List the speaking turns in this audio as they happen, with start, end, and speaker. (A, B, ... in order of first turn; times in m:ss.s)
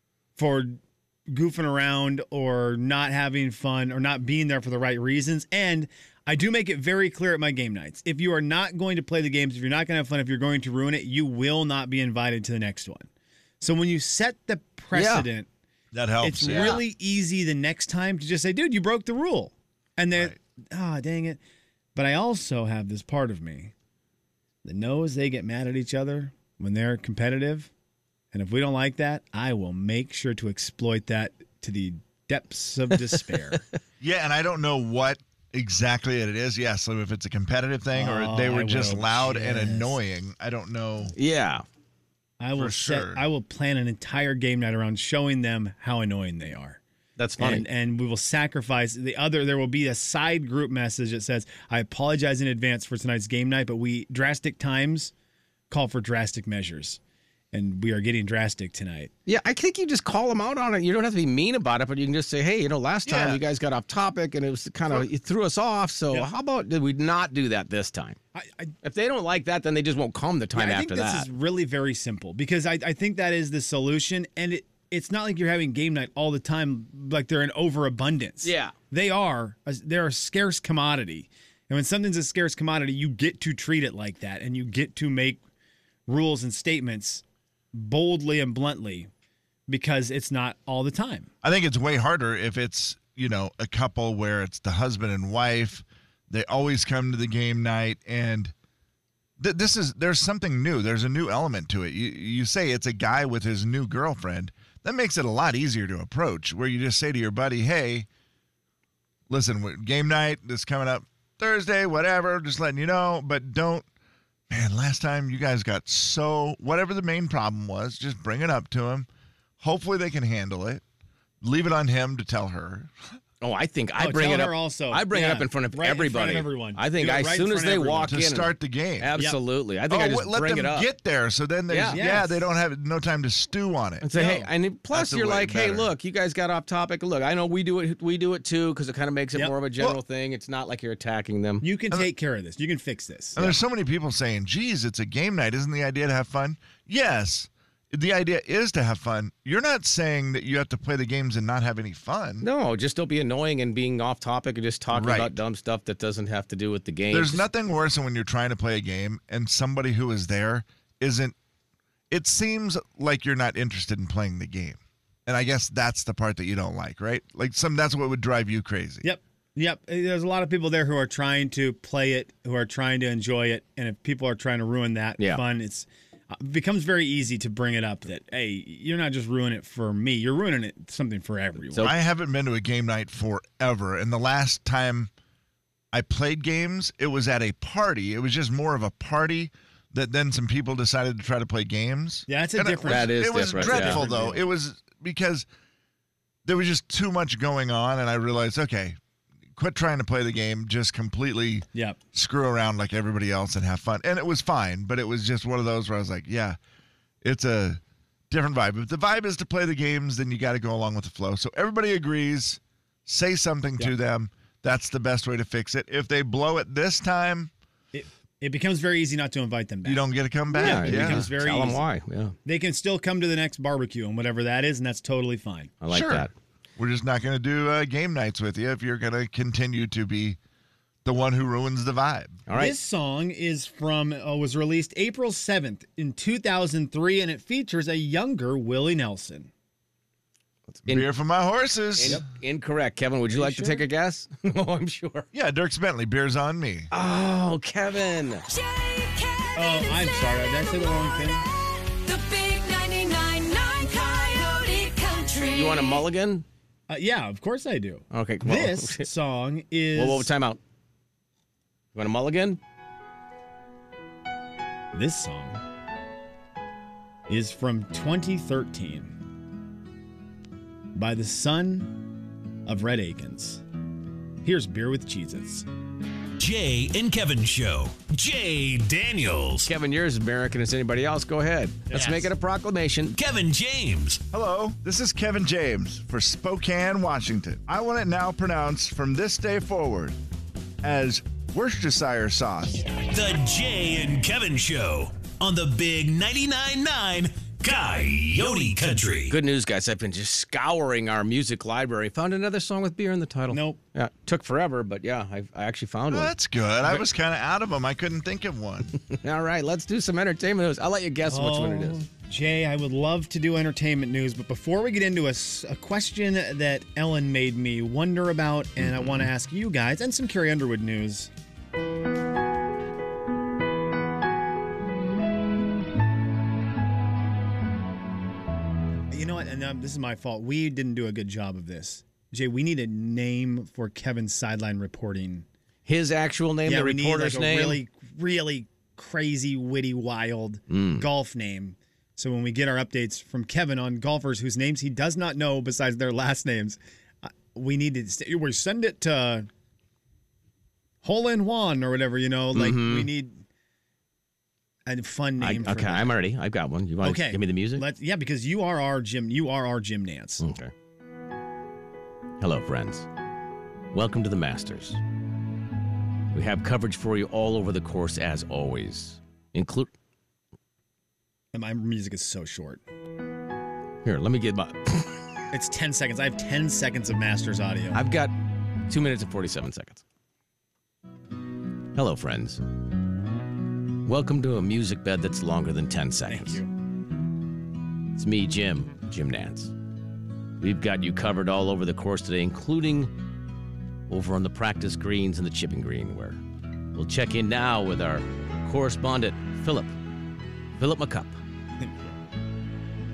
0:00.4-0:13.1 A
0:13.6-0:15.5 A
0:14.9-0:15.3 B
0:15.9-0:16.8 C
0:16.2-0:21.4 A
0:16.5-0:16.8 B
0:22.0-0:23.7 A
0:24.6-0:27.7 A
0:28.3-0:33.6 A
0:34.0-0:41.2 C
0:38.0-0:40.0 A
0:41.2-0:41.6 B
0:42.4-0:46.8 A
0:42.6-0:43.2 C
0:47.2-0:47.6 B
0:47.4-0:55.1 A
0:55.7-0:57.0 A
0:57.5-0:59.1 A
0:59.3-1:08.2 B
1:03.1-1:03.4 C
1:08.4-1:08.7 A
1:08.8-1:11.3 B
1:10.6-1:25.4 A
1:18.4-1:18.8 B
1:26.1-1:29.1 A
1:29.7-1:31.3 A
1:31.4-1:38.5 C
1:39.4-1:48.1 C
1:49.3-1:53.9 C
1:54.5-1:59.1 C
1:59.6-2:00.8 C
2:01.4-2:03.1 C
2:03.4-2:10.9 B
2:04.0-2:08.1 A
2:08.1-2:09.1 C
2:09.9-2:14.1 C
2:11.7-2:12.0 B
2:11.9-2:12.4 A
2:14.0-2:21.7 B
2:14.2-2:14.5 A
2:14.9-2:15.9 C
2:21.6-2:23.5 A
2:23.4-2:32.5 C
2:32.4-2:37.4 B
2:34.9-2:35.4 C
2:37.1-2:41.4 C
2:42.1-2:49.0 C
2:49.0-3:01.9 A
3:01.8-3:05.1 C
3:05.9-3:15.5 C
3:12.3-3:14.4 A
3:12.8-3:14.0 B
3:16.5-3:19.0 C
3:19.6-3:26.6 C
3:27.2-3:37.5 C
3:37.9-3:41.8 A
3:39.8-3:41.2 C
3:40.6-3:42.4 B
3:42.4-3:45.7 A
3:45.8-3:46.3 B
3:45.9-3:50.4 C
3:51.0-3:52.4 C
3:52.5-3:52.8 B
3:52.5-3:59.5 A
4:00.7-4:01.1 B
4:00.9-4:02.2 C
4:02.0-4:05.3 B
4:03.3-4:03.8 A
4:05.3-4:06.9 C
4:06.9-4:08.4 B
4:08.5-4:10.3 D
4:09.6-4:11.5 A
4:12.0-4:16.0 D
4:15.5-4:16.4 B
4:16.9-4:20.3 A
4:18.1-4:19.1 B
4:20.0-4:20.6 B
4:22.0-4:22.6 B
4:24.9-4:25.6 A
4:27.3-4:29.1 A
4:31.0-4:32.1 A
4:32.7-4:33.6 A
4:34.4-4:35.7 A
4:36.4-4:39.7 E
4:39.6-4:43.2 B
4:41.9-4:42.3 A
4:43.1-4:44.2 E
4:44.3-4:50.2 C
4:50.8-4:52.9 C
4:53.1-4:59.4 E
4:59.3-5:06.3 B
5:03.5-5:03.8 A
5:06.1-5:09.0 C
5:09.1-5:12.0 B
5:11.3-5:21.3 A
5:29.1-5:35.5 A
5:35.9-5:37.8 B
5:36.7-5:49.5 A
5:40.7-5:41.0 B
5:51.0-5:53.4 A
5:52.6-5:53.1 B
5:54.9-5:56.2 A
5:55.4-5:57.8 B
5:57.0-6:00.4 A
6:00.4-6:00.7 B
6:02.4-6:03.1 B
6:03.9-6:05.0 B
6:06.3-6:09.9 B
6:11.5-6:12.8 A
6:14.0-6:15.2 B
6:15.5-6:18.0 A
6:17.9-6:18.3 B
6:18.9-6:20.0 B
6:22.0-6:22.6 B
6:24.0-6:26.6 B
6:26.3-6:26.7 A
6:28.2-6:29.7 B
6:30.6-6:33.1 B
6:34.1-6:36.4 B
6:36.9-6:39.9 B
6:40.8-6:41.4 B